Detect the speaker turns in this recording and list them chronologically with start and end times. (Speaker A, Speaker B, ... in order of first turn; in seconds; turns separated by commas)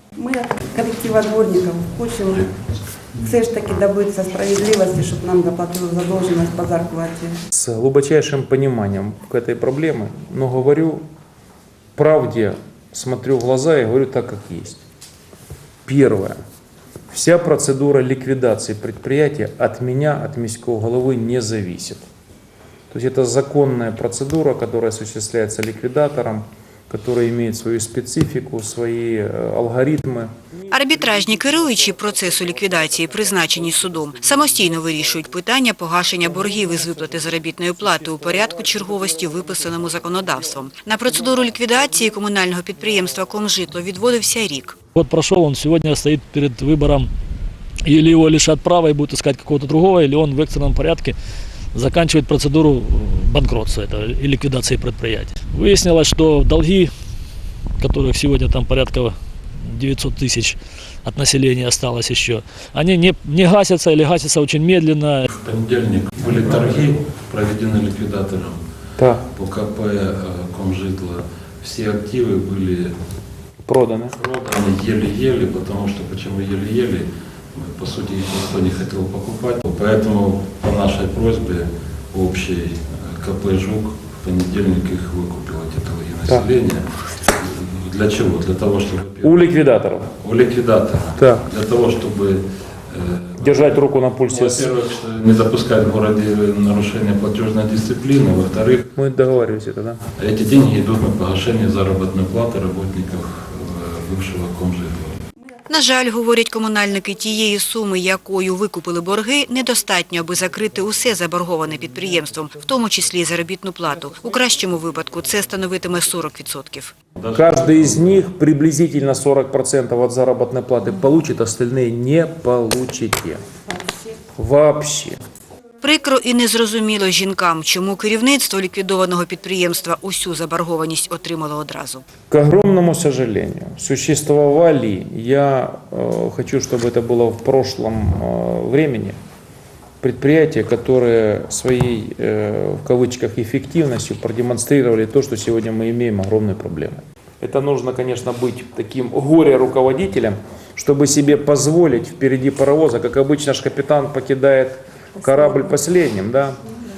Speaker A: 0.2-2.5, Speaker A: 3.1-7.4, Speaker B: 7.5-11.0, Speaker B: 11.9-14.8, Speaker B: 15.8-16.4, Speaker B: 17.1-22.1, Speaker B: 22.9-30.3, Speaker C: 30.7-44.7, Speaker D: 44.9-47.1, Speaker D: 47.8-51.1, Speaker D: 51.7-56.9, Speaker D: 57.8-65.2, Speaker E: 65.2-68.6, Speaker B: 69.0-69.2, Speaker E: 69.3-72.9, Speaker B: 73.7-74.1, Speaker E: 74.1-89.4, Speaker B: 89.2-90.1, Speaker E: 90.2-93.6, Speaker B: 91.2-91.5, Speaker B: 93.4-94.7, Speaker E: 94.3-98.8, Speaker B: 98.9-100.0, Speaker E: 100.2-105.2, Speaker C: 105.7-116.9, Speaker E: 117.2-118.2, Speaker B: 117.3-123.4, Speaker B: 124.4-125.2, Speaker C: 125.8-132.0, Speaker B: 132.3-139.2, Speaker B: 140.0-156.6